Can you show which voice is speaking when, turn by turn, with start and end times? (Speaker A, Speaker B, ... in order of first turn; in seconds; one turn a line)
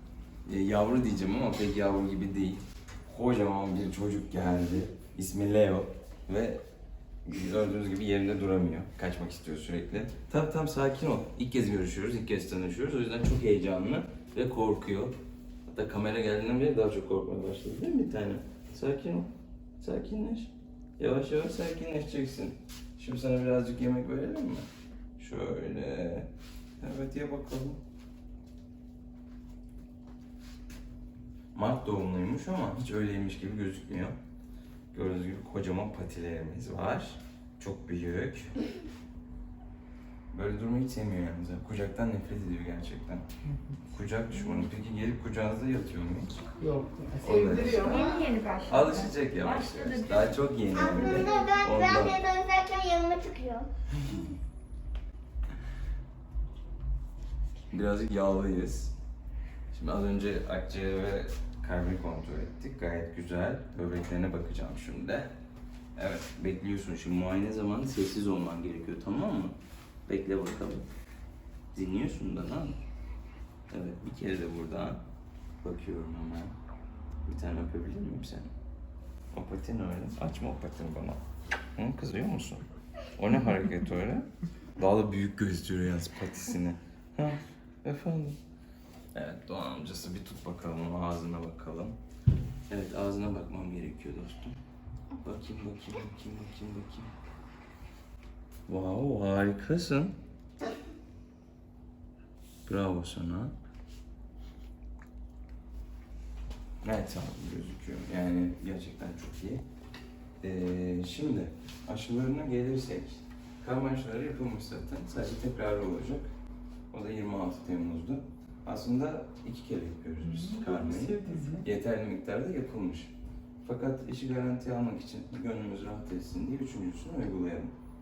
Speaker A: 0.5-6.6
Speaker A: 7.2-15.2
Speaker A: 15.7-24.7
Speaker A: 25.2-27.8
Speaker A: 31.5-34.2
Speaker A: 34.9-38.5
Speaker A: 40.3-43.2
Speaker A: 43.9-46.4
Speaker B: 46.6-48.3
Speaker A: 47.2-48.0
Speaker C: 47.7-51.5
Speaker A: 48.7-52.2
Speaker D: 50.7-53.7
Speaker A: 57.7-59.0
Speaker A: 59.7-65.3
Speaker A: 66.0-69.6
Speaker A: 70.1-70.9
Speaker A: 71.7-72.8
Speaker A: 73.7-75.0
Speaker A: 75.6-76.5
Speaker A: 77.2-78.5
Speaker A: 79.3-81.2
Speaker A: 81.8-82.6
Speaker A: 83.2-88.4
Speaker A: 89.1-92.0
Speaker A: 92.7-94.6
Speaker A: 95.2-97.1
Speaker A: 98.7-100.2
Speaker A: 102.7-103.5
Speaker A: 106.8-109.6
Speaker A: 110.4-116.3
Speaker A: 116.9-123.1
Speaker B: 120.2-121.7
Speaker A: 123.6-127.7